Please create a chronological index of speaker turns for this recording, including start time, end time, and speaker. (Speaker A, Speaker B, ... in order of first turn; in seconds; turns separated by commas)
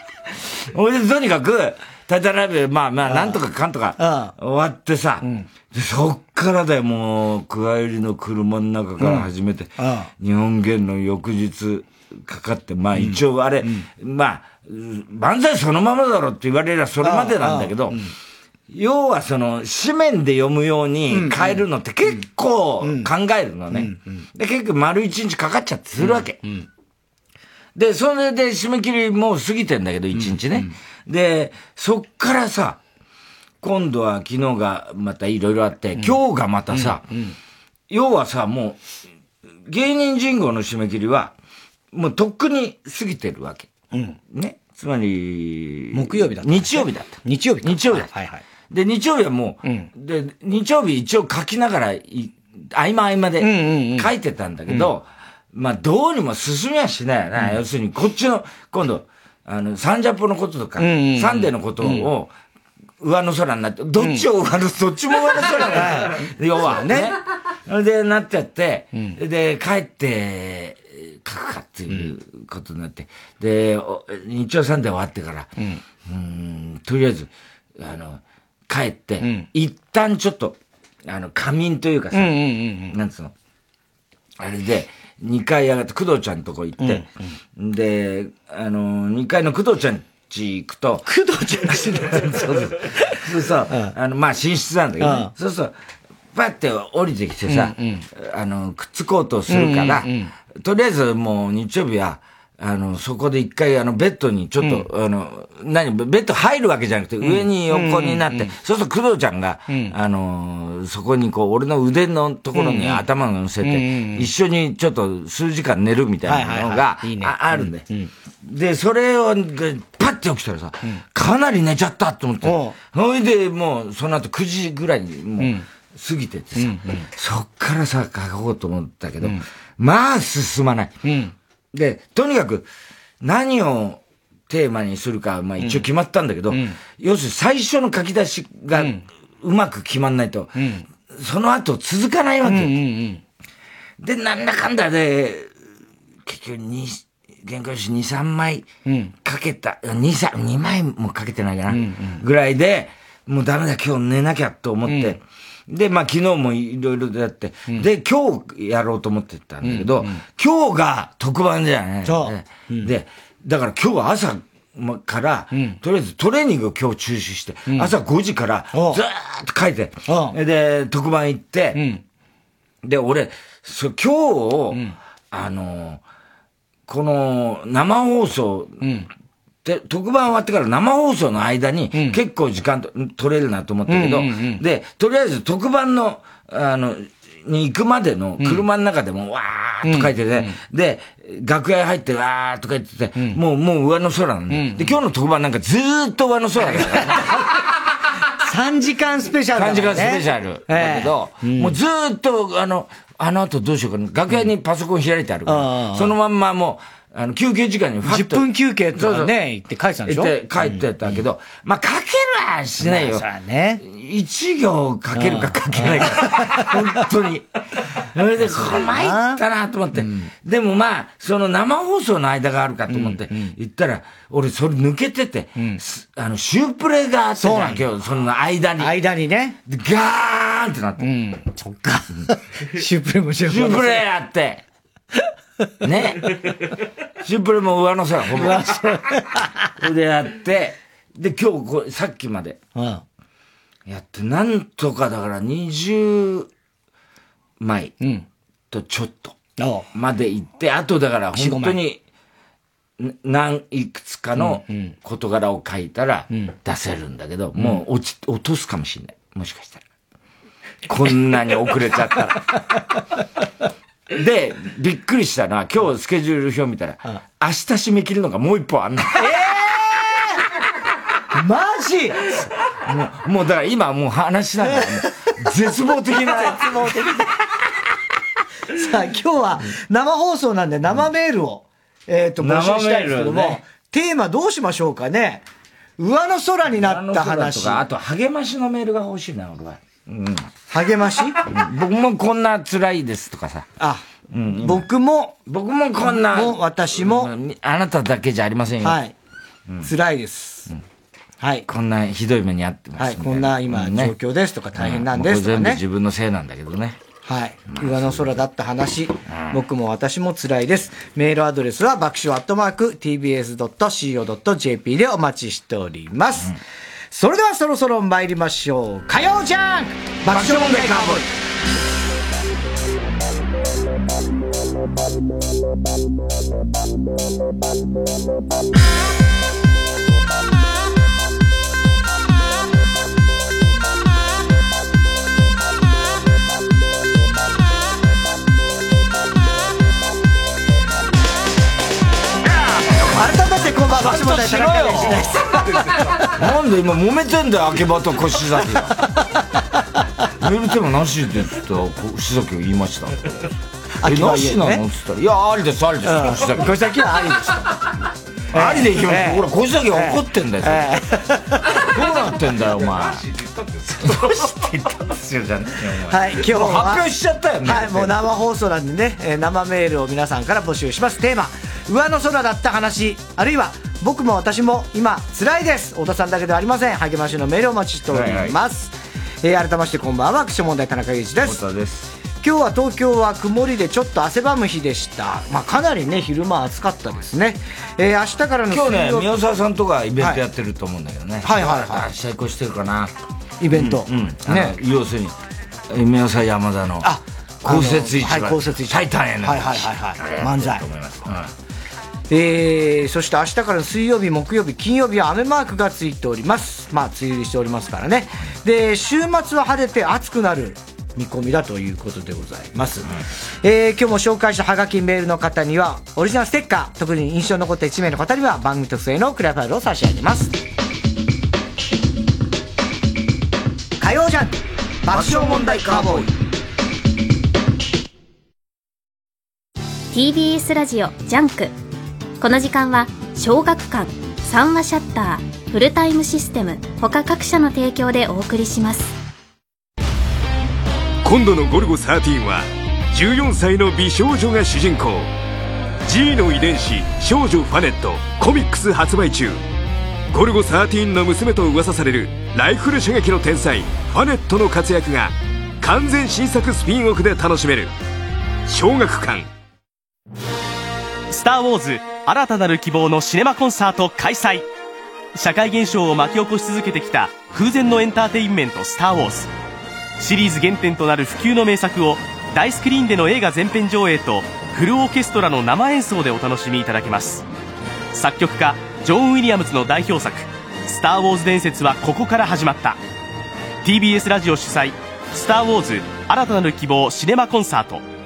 Speaker A: 0.6-18.1, Speaker B: 3.0-3.4, Speaker B: 4.0-4.3, Speaker B: 5.2-5.5, Speaker B: 9.0-9.3, Speaker B: 9.8-10.1, Speaker B: 12.9-13.9, Speaker B: 17.0-18.1, Speaker A: 18.7-26.4, Speaker B: 21.1-21.6, Speaker B: 22.8-23.1, Speaker B: 23.7-24.2, Speaker B: 26.0-26.7, Speaker A: 27.7-32.8, Speaker B: 30.1-30.7, Speaker A: 33.6-37.0, Speaker B: 36.7-37.4, Speaker A: 37.9-38.8, Speaker A: 39.6-41.3, Speaker A: 41.9-43.7, Speaker B: 43.9-44.2, Speaker A: 44.3-48.1, Speaker B: 45.9-48.4, Speaker A: 48.7-62.3, Speaker B: 49.6-49.9, Speaker B: 53.4-54.1, Speaker B: 60.8-62.1, Speaker A: 63.0-75.5, Speaker B: 64.0-64.2, Speaker B: 65.7-67.1, Speaker A: 76.0-83.3, Speaker B: 79.2-79.5, Speaker B: 82.1-83.0, Speaker A: 84.4-91.0, Speaker B: 86.8-87.2, Speaker B: 91.0-93.1, Speaker A: 91.9-95.7, Speaker B: 95.0-95.3, Speaker A: 96.3-117.8, Speaker B: 97.5-98.0, Speaker B: 99.5-100.3, Speaker B: 107.2-108.5, Speaker B: 109.7-109.9, Speaker B: 112.5-113.0, Speaker B: 113.6-114.3, Speaker B: 116.2-118.1, Speaker A: 118.4-130.9, Speaker B: 122.4-122.8, Speaker B: 125.4-125.7, Speaker B: 126.5-127.1, Speaker B: 131.0-131.3, Speaker A: 131.7-132.7, Speaker A: 133.2-140.5, Speaker B: 135.6-135.8, Speaker B: 136.5-136.8, Speaker B: 138.7-139.0, Speaker B: 140.6-140.9, Speaker A: 141.1-142.8, Speaker B: 142.4-143.2, Speaker A: 144.0-145.5, Speaker A: 146.2-148.7, Speaker B: 148.8-149.1, Speaker A: 149.2-171.8, Speaker B: 151.7-152.2, Speaker B: 154.8-155.2, Speaker B: 159.6-160.2, Speaker B: 162.0-162.9, Speaker B: 165.5-165.8, Speaker B: 168.7-169.0, Speaker B: 170.1-170.4, Speaker B: 171.7-172.0, Speaker A: 172.8-176.0, Speaker A: 176.9-178.8, Speaker B: 178.8-179.1, Speaker A: 179.6-197.4, Speaker B: 181.9-182.2, Speaker B: 183.9-184.6, Speaker B: 189.8-190.6, Speaker B: 194.5-194.9, Speaker B: 196.6-197.3, Speaker B: 198.4-201.8, Speaker A: 199.5-209.3, Speaker B: 205.4-206.1, Speaker B: 208.0-211.2, Speaker A: 210.0-213.2, Speaker B: 212.8-213.8, Speaker A: 213.8-217.5, Speaker B: 215.1-217.0, Speaker A: 218.1-228.9, Speaker B: 218.4-219.4, Speaker B: 222.9-223.5, Speaker B: 227.4-227.8, Speaker B: 228.8-229.6, Speaker A: 229.6-231.1, Speaker B: 231.0-234.0, Speaker A: 233.4-234.6, Speaker A: 235.8-236.4, Speaker A: 237.2-238.9, Speaker B: 238.3-239.7, Speaker A: 239.8-242.6, Speaker B: 242.7-243.0, Speaker A: 243.8-246.5, Speaker A: 247.6-247.9, Speaker B: 248.0-248.2, Speaker A: 248.7-249.3, Speaker B: 249.6-249.8, Speaker A: 249.9-252.0, Speaker B: 251.3-251.8, Speaker A: 253.0-259.8, Speaker B: 254.4-254.9, Speaker B: 257.6-257.8, Speaker A: 260.9-262.5, Speaker A: 264.1-269.3, Speaker B: 269.1-270.4, Speaker B: 271.3-272.2, Speaker A: 272.3-276.9, Speaker B: 274.6-274.9, Speaker B: 275.7-277.3, Speaker B: 278.7-285.4, Speaker A: 282.4-283.6, Speaker B: 286.0-287.8, Speaker A: 286.7-290.5, Speaker B: 290.7-291.5, Speaker A: 291.4-293.7, Speaker B: 293.8-294.0, Speaker A: 294.3-294.9, Speaker B: 294.6-295.4, Speaker A: 295.5-299.0, Speaker B: 296.1-297.3, Speaker B: 298.8-299.1, Speaker B: 299.8-300.7, Speaker B: 301.4-301.6, Speaker A: 301.7-304.1, Speaker B: 303.0-305.8, Speaker A: 304.8-307.0, Speaker B: 307.2-316.6, Speaker A: 307.7-308.4, Speaker A: 309.3-309.6, Speaker B: 317.1-321.3, Speaker A: 320.3-321.3, Speaker B: 343.0-346.3, Speaker A: 343.9-345.5, Speaker A: 346.2-349.0, Speaker B: 349.0-349.6, Speaker A: 350.4-353.3, Speaker B: 354.0-354.8, Speaker A: 354.0-356.7, Speaker B: 356.1-357.7, Speaker A: 358.5-360.9, Speaker B: 358.5-361.8, Speaker A: 361.7-368.2, Speaker B: 364.0-364.4, Speaker B: 366.1-367.1, Speaker B: 367.6-381.6, Speaker A: 378.1-378.6, Speaker A: 381.4-382.1, Speaker B: 382.4-389.3, Speaker A: 388.7-393.1, Speaker B: 391.4-392.1, Speaker B: 393.6-394.8, Speaker A: 393.7-395.4, Speaker A: 395.9-401.5, Speaker B: 397.0-400.8, Speaker B: 402.3-420.5, Speaker B: 424.0-424.5, Speaker B: 425.1-426.0, Speaker A: 425.6-426.1, Speaker C: 430.1-431.7, Speaker C: 432.4-439.1, Speaker D: 441.2-445.3, Speaker D: 446.1-449.6, Speaker D: 450.3-457.9, Speaker D: 458.7-459.5, Speaker E: 461.3-464.7, Speaker E: 465.3-469.5, Speaker E: 470.2-477.4, Speaker E: 478.1-483.0, Speaker E: 483.8-488.0